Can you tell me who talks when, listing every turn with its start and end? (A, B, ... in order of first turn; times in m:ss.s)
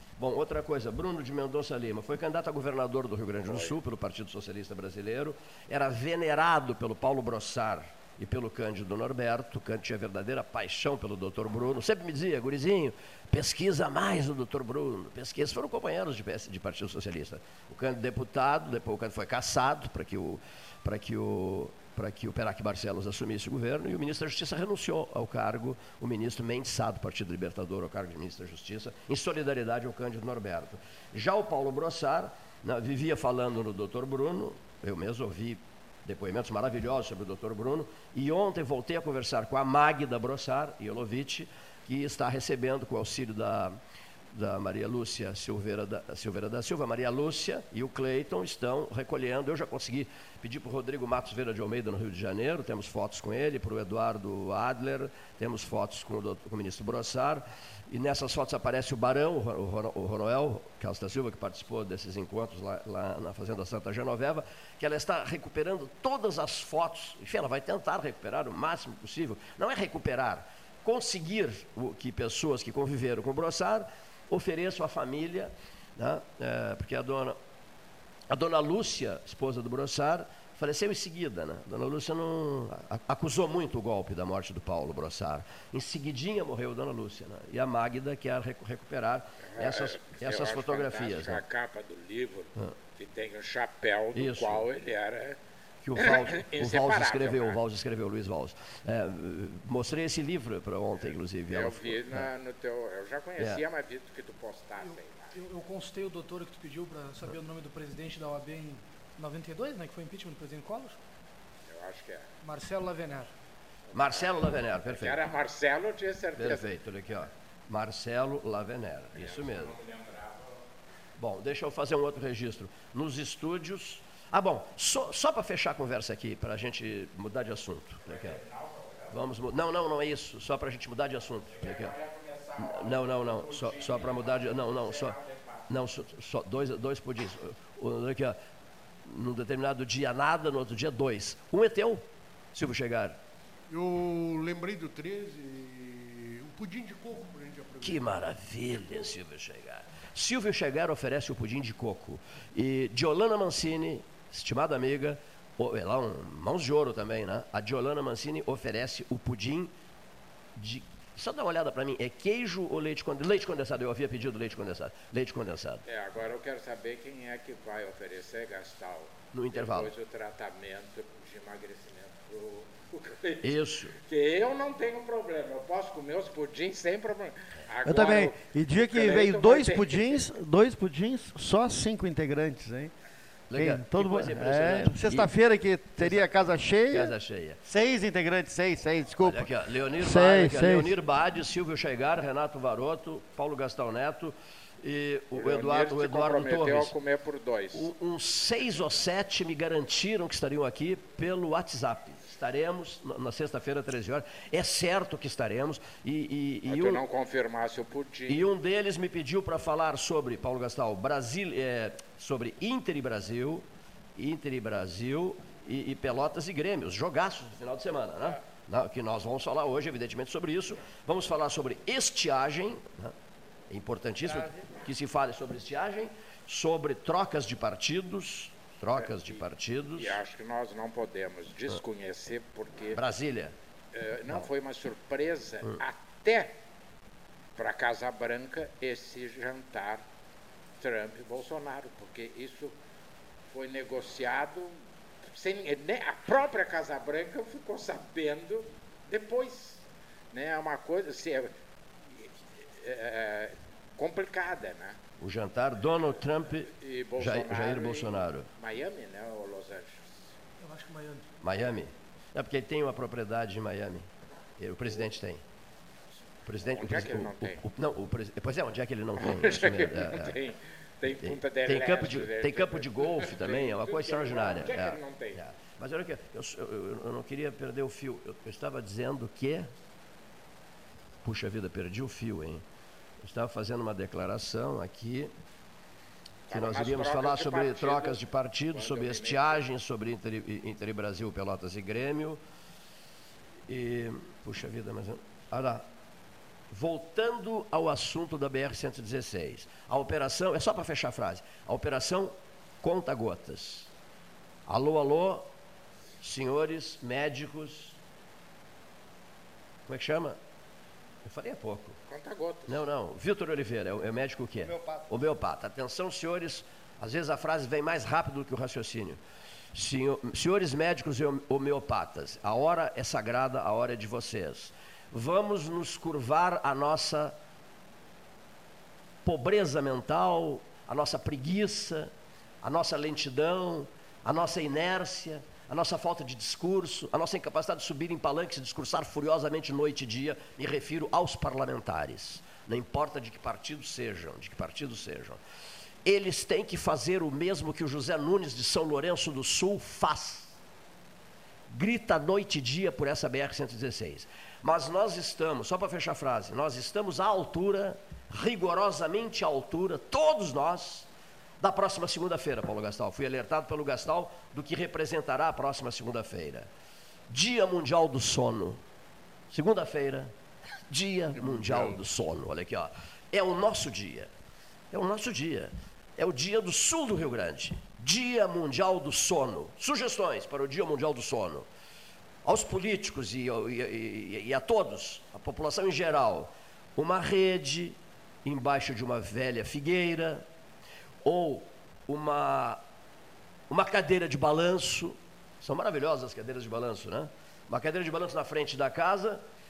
0:00.2-0:43.8 A
0:03.4-0:03.7 B
0:44.3-1:17.4 A
1:18.3-1:31.4 A
1:29.5-1:35.4 B
1:34.1-1:34.6 A
1:35.8-1:42.3 A
1:36.0-1:37.6 B
1:41.0-1:45.4 B
1:44.8-1:51.0 C
1:51.7-1:52.2 B
1:52.4-1:53.3 C
1:53.9-1:56.7 B
1:53.9-1:55.2 A
1:56.4-1:59.7 A
1:59.2-2:00.6 B
2:01.2-2:08.4 A
2:08.1-2:09.1 B
2:09.1-2:11.9 A
2:11.5-2:15.6 B
2:12.6-2:15.2 A
2:15.7-2:18.4 A
2:19.0-2:23.2 A
2:23.7-2:29.1 D
2:27.8-2:39.7 A
2:40.6-2:45.8 A
2:45.8-3:00.3 B
2:49.3-2:49.9 A
2:53.4-2:54.0 A
2:57.8-3:02.9 E
3:03.5-3:05.3 A
3:03.5-3:07.1 E
3:06.0-3:07.6 A
3:07.6-3:10.9 E
3:09.2-3:16.9 A
3:15.3-3:17.9 B
3:17.7-3:27.0 A
3:26.7-3:28.5 B
3:28.3-3:33.6 A
3:34.2-3:43.1 A
3:43.7-3:50.2 A
3:49.0-3:49.4 B
3:50.0-3:53.0 B
3:52.9-3:53.5 A
3:53.9-3:56.5 B
3:57.6-4:00.0 B
4:00.8-4:02.7 B
4:03.5-4:11.5 B
4:12.2-4:15.0 B
4:15.2-4:18.5 A
4:16.6-4:20.3 B
4:20.6-4:21.3 C
4:21.4-4:24.1 A
4:24.6-4:25.4 A
4:26.5-4:30.4 A
4:26.6-4:27.6 B
4:29.2-4:35.4 B
4:31.2-4:39.7 A
4:41.2-4:42.6 A
4:43.2-4:45.3 A
4:46.5-4:49.6 B
4:46.5-4:52.4 A
4:53.7-4:55.8 A
4:56.7-5:03.9 A
5:04.7-5:05.5 A
5:06.2-5:08.0 A
5:09.9-5:10.4 A
5:11.2-5:12.0 A
5:12.1-5:12.8 B
5:12.7-5:19.2 A
5:14.6-5:15.1 E
5:19.7-5:27.3 A
5:29.2-5:32.1 A
5:32.6-5:45.4 A
5:46.0-5:50.5 A
5:51.7-6:01.1 A
6:01.6-6:06.7 A
6:07.3-6:08.8 A
6:09.5-6:10.3 A
6:10.9-6:14.3 A
6:11.3-6:12.0 D
6:14.9-6:21.7 A
6:22.4-6:30.4 A
6:31.2-6:32.8 A
6:33.7-6:39.4 A